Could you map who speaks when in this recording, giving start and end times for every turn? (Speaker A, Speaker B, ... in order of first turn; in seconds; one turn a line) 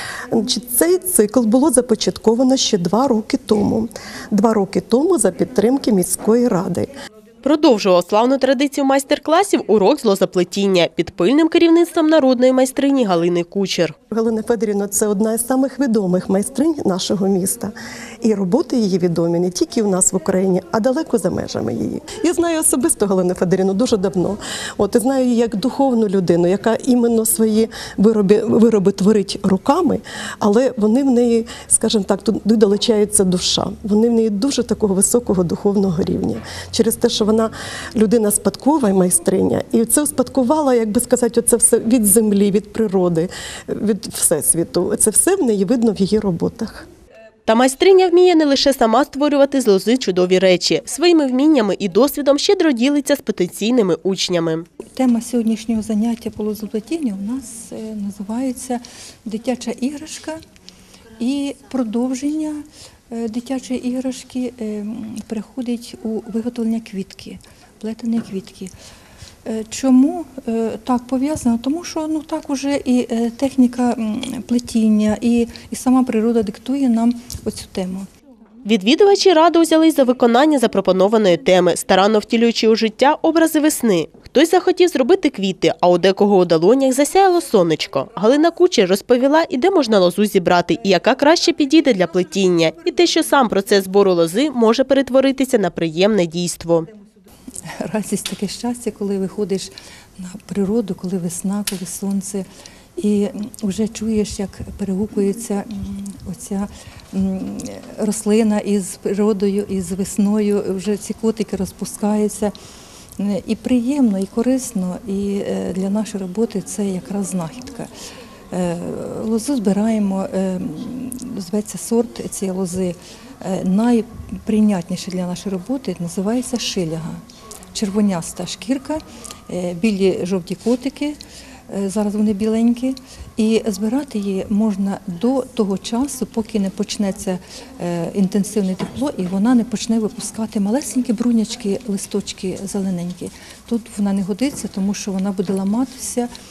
Speaker A: 0.3-6.9
Speaker B: 7.4-13.9
Speaker A: 14.1-46.9
Speaker B: 47.5-54.6
Speaker C: 54.9-60.4
Speaker C: 61.2-68.7
Speaker C: 69.5-78.1
Speaker B: 78.6-96.9
Speaker C: 97.7-102.5
Speaker C: 103.0-112.5
Speaker C: 113.2-117.9
Speaker C: 118.5-127.2
Speaker C: 127.7-131.2
Speaker C: 131.7-146.3